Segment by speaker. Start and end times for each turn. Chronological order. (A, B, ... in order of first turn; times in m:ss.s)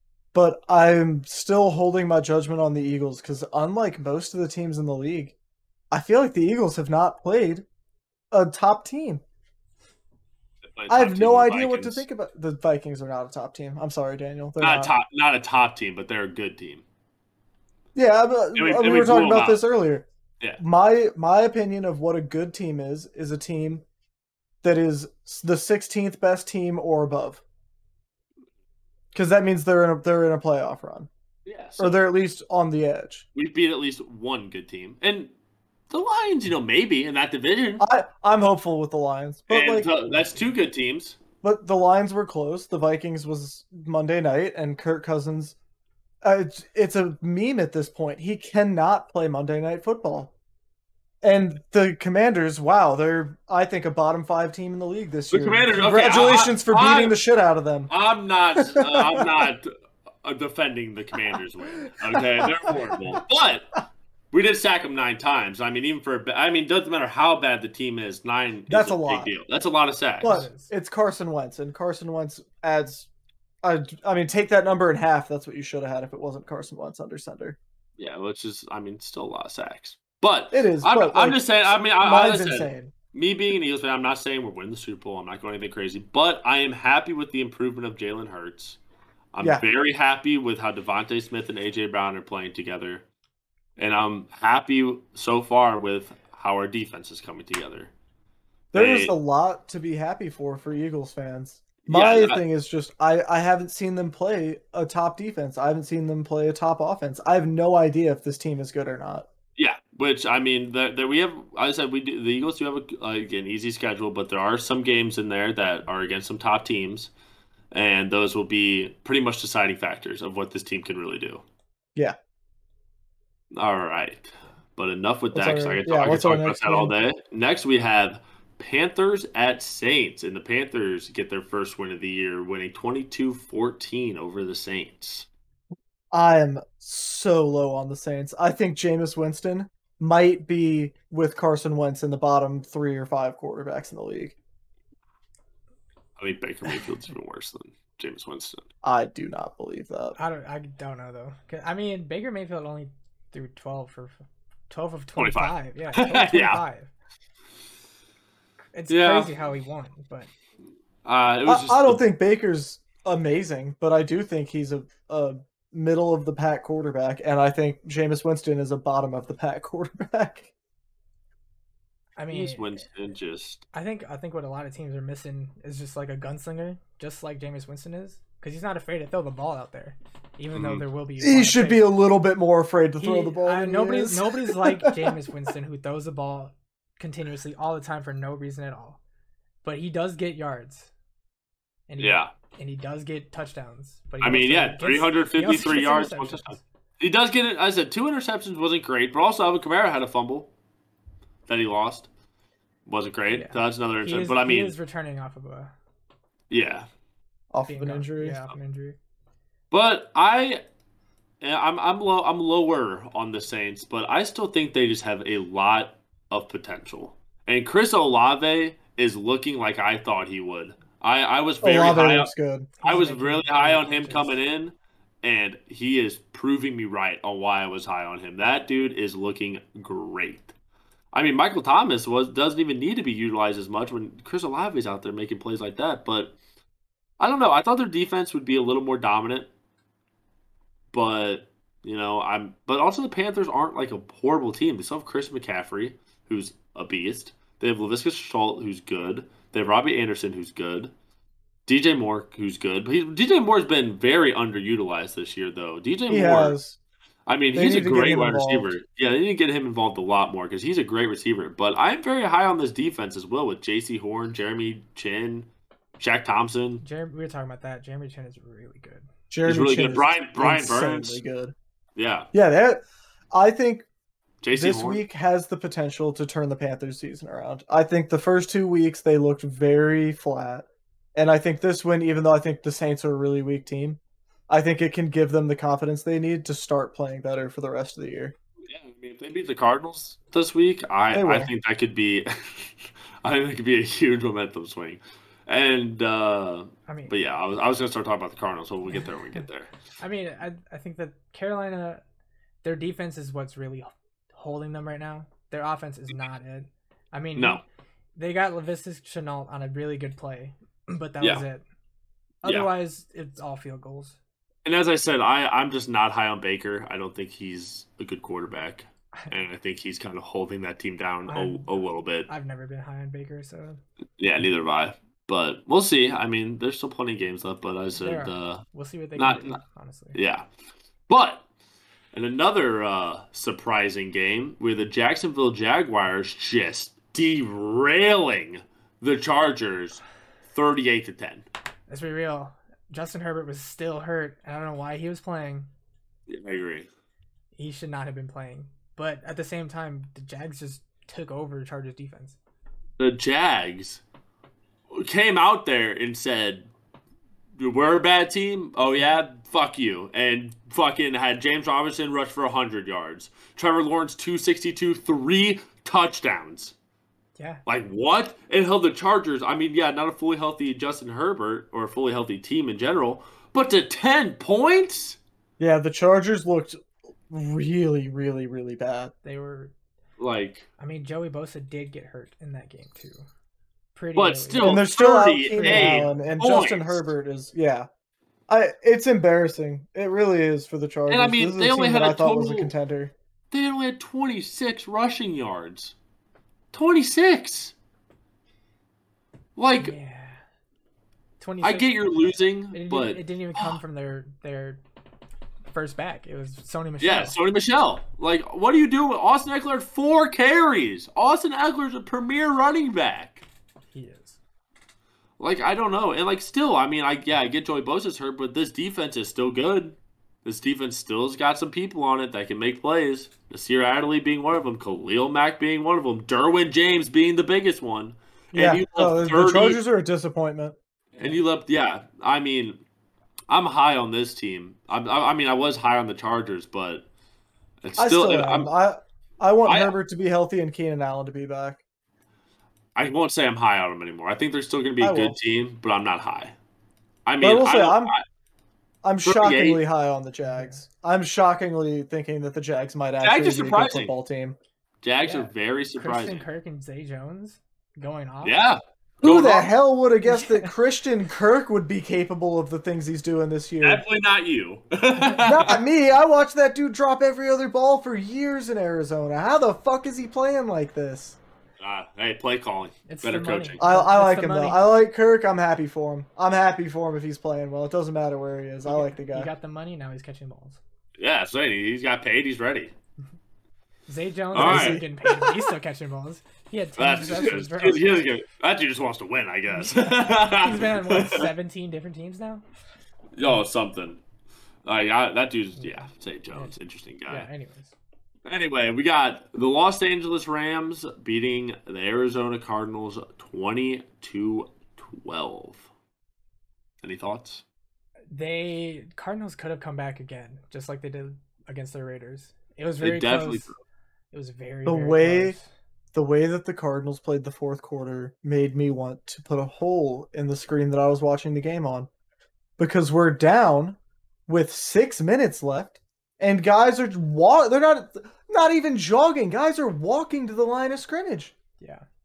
0:00.3-0:05.4 A
0:05.9-0:07.6 A
0:08.3-0:09.2 A
0:10.7-0:12.0 B
0:10.9-0:14.9 A
0:14.6-0:16.8 B
0:18.0-0:20.1 A
0:18.6-0:19.6 B
0:20.6-0:23.8 A
0:24.6-0:27.4 A
0:29.1-0:31.1 A
0:31.5-0:32.0 B
0:31.8-0:33.2 A
0:33.4-0:35.3 B
0:35.9-0:37.9 B
0:37.8-0:40.4 A
0:39.5-0:41.2 B
0:41.4-0:45.6 A
0:46.2-0:50.3 A
0:51.2-0:57.9 A
0:55.3-0:57.2 B
0:57.9-0:59.7 B
0:58.6-0:59.5 A
1:00.2-1:03.8 B
1:02.0-1:03.0 A
1:04.3-1:10.5 B
1:08.7-1:09.3 A
1:10.2-1:13.1 A
1:10.2-1:10.7 C
1:13.6-1:17.6 A
1:18.0-1:28.8 B
1:20.5-1:22.9 A
1:29.3-1:33.0 B
1:33.8-1:37.9 B
1:38.7-1:49.3 A
1:38.7-1:39.1 B
1:41.9-1:42.4 B
1:49.6-1:57.1 B
1:57.7-2:01.4 B
2:03.5-2:15.3 B
2:05.3-2:06.9 A
2:16.1-2:24.4 A
2:26.2-2:28.7 B
2:28.8-2:30.2 A
2:30.2-2:36.9 C
2:35.2-2:36.6 B
2:38.7-2:40.3 C
2:38.9-2:39.3 B
2:41.0-2:42.0 B
2:41.4-2:50.5 A
2:52.2-2:52.8 C
2:52.3-2:53.6 B
2:53.7-3:01.9 C
3:00.5-3:00.8 B
3:01.2-3:05.1 A
3:03.0-3:09.0 C
3:09.6-3:10.9 C
3:11.9-3:16.6 C
3:12.0-3:12.3 B
3:14.2-3:20.5 B
3:21.5-3:22.1 B
3:22.9-3:24.7 B
3:23.3-3:25.7 C
3:26.5-3:26.9 B
3:27.5-3:28.4 A
3:27.7-3:29.0 C
3:29.7-3:30.6 B
3:31.4-3:42.3 B
3:41.6-3:42.7 A
3:42.8-3:44.4 C
3:42.8-3:50.5 B
3:51.1-3:56.4 B
3:57.2-3:59.5 B
4:00.9-4:10.9 B
4:11.7-4:16.6 B
4:16.1-4:16.8 A
4:17.3-4:26.8 B
4:17.5-4:18.7 A
4:26.8-4:29.1 C
4:29.3-4:31.5 A
4:29.5-4:31.2 B
4:32.0-4:32.3 B
4:32.3-4:33.9 A
4:34.4-4:35.0 B
4:34.5-4:48.4 A
4:48.7-4:59.7 B
4:51.1-4:51.5 A
4:56.9-4:57.1 C
5:00.0-5:02.0 C
5:02.6-5:07.6 C
5:07.4-5:07.6 B
5:08.2-5:11.6 C
5:12.4-5:14.2 C
5:12.4-5:12.7 B
5:14.6-5:22.3 B
5:21.3-5:21.7 C
5:22.3-5:23.8 C
5:24.2-5:28.6 B
5:28.0-5:30.2 C
5:29.2-5:29.6 B
5:30.2-5:30.5 B
5:31.1-5:31.4 B
5:32.1-5:41.5 B
5:41.9-5:45.7 C
5:46.3-5:46.9 B
5:47.6-5:52.4 C
5:53.0-5:54.0 B
5:54.9-5:56.7 B
5:57.6-6:06.7 B
6:07.4-6:07.6 C
6:07.7-6:15.2 B
6:15.6-6:16.8 A
6:17.3-6:19.1 A
6:19.2-6:19.7 C
6:20.2-6:20.7 B
6:20.8-6:23.2 C
6:24.0-6:24.9 C
6:24.2-6:27.1 B
6:24.6-6:27.9 A
6:25.4-6:26.3 C
6:28.5-6:33.1 A
6:31.1-6:32.7 B
6:33.5-6:36.0 B
6:36.7-6:37.7 B
6:39.6-6:40.0 B
6:39.8-6:40.4 C
6:41.4-6:42.0 C
6:41.6-6:43.8 B
6:42.7-6:44.8 C
6:45.7-6:47.4 C
6:47.0-6:53.4 B
6:53.9-6:54.4 C
6:55.4-7:09.8 B
7:08.5-7:10.8 A
7:11.2-7:12.8 B
7:13.5-7:17.1 B
7:17.8-7:18.7 B
7:18.0-7:21.8 A
7:19.7-7:20.0 B
7:23.0-7:26.6 B
7:25.0-7:25.4 A
7:27.3-7:28.2 B
7:27.4-7:28.1 A
7:29.0-7:34.6 A
7:29.2-7:29.8 B
7:30.5-7:30.8 C
7:33.2-7:34.1 B
7:35.0-7:36.4 B
7:35.2-7:38.6 C
7:38.4-7:39.7 B
7:39.2-7:44.0 A
7:40.3-7:40.7 C
7:43.8-7:45.8 B
7:45.4-7:51.4 A
7:51.8-7:53.8 B
7:53.1-7:54.9 C
7:53.8-7:59.5 A
7:58.9-8:00.8 C
8:01.2-8:02.9 B
8:04.1-8:08.2 C
8:04.5-8:05.5 B
8:04.6-8:05.0 A
8:07.0-8:11.5 B
8:09.7-8:12.6 C
8:13.4-8:14.2 B
8:14.8-8:17.5 B
8:15.8-8:16.7 C
8:17.3-8:17.9 C
8:18.5-8:25.9 B
8:27.0-8:27.6 B
8:28.3-8:33.7 C
8:33.0-8:33.8 B
8:34.3-8:35.7 C
8:34.9-8:35.6 A
8:36.1-8:42.1 A
8:42.8-8:51.5 A
8:51.8-8:52.0 C